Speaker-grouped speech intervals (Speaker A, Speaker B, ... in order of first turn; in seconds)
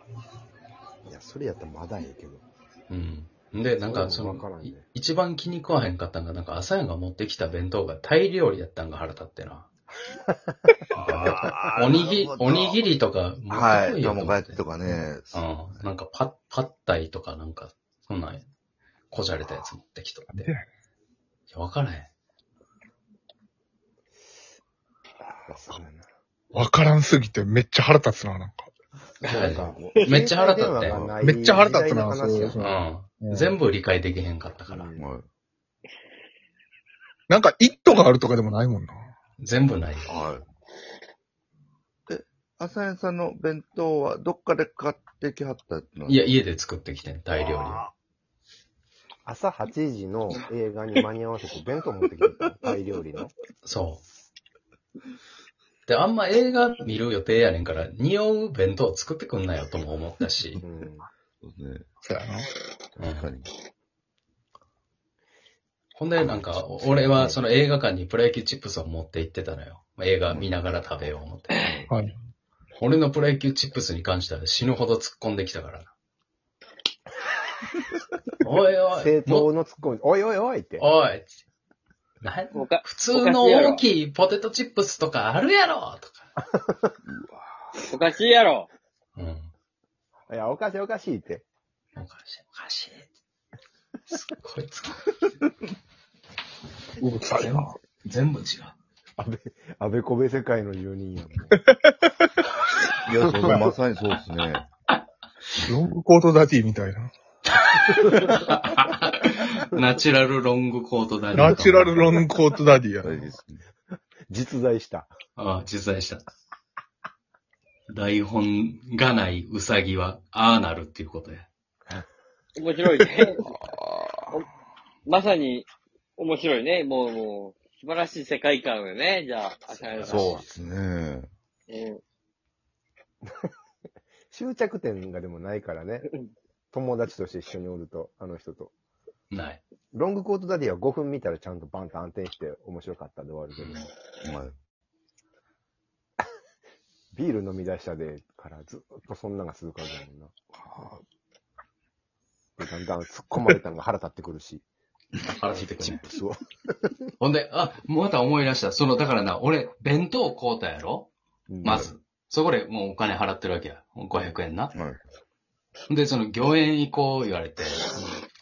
Speaker A: 1.1-2.4, 3.9-4.8, 11.3-11.6, 25.5-26.1, 29.3-32.6, 34.7-35.1, 49.2-53.3, 60.6-61.1, 67.0-67.4, 79.0-80.9, 86.6-86.9, 90.3-91.4, 99.2-101.6, 114.3-115.1, 130.2-130.4, 134.3-136.1, 136.7-138.7, 139.9-143.8, 147.1-150.3, 152.6-154.6, 155.5-157.0, 161.5-161.9
Speaker B: 2.9-9.7, 10.9-14.7, 15.3-18.5, 19.1-20.5, 21.5-22.1, 29.2-31.1, 32.6-34.9, 39.4-40.1, 46.1-47.9, 53.6-54.0, 55.9-60.6, 63.0-63.3, 66.0-71.9, 72.8-75.9, 78.4-79.5, 80.8-81.4, 82.2-86.3, 89.2-89.5, 92.0-93.1, 94.1-95.1, 97.4-98.8, 107.9-112.1, 115.4-116.2, 117.9-121.5, 129.9-130.6, 139.3-139.6, 143.6-143.9, 155.2-156.0, 157.2-161.1, 161.6-164.8, 165.9-167.9
Speaker C: 11.1-12.8, 13.5-15.9, 29.2-30.0, 30.9-31.2, 35.0-35.3, 40.1-40.5, 42.1-46.3, 47.4-47.9, 61.4-61.8, 63.0-63.5, 87.1-87.5, 103.1-104.7, 113.0-113.7, 123.5-124.4, 130.1-131.3, 144.2-144.5, 150.6-151.0, 164.7-165.0
Speaker D: 20.3-20.7, 26.5-28.7, 31.2-33.5, 37.3-39.1, 62.0-62.5, 97.0-97.8, 103.4-103.7, 105.7-107.1, 111.3-113.1
Speaker E: 82.5-83.8, 87.9-88.7, 122.6-123.5, 125.1-130.4, 131.7-132.0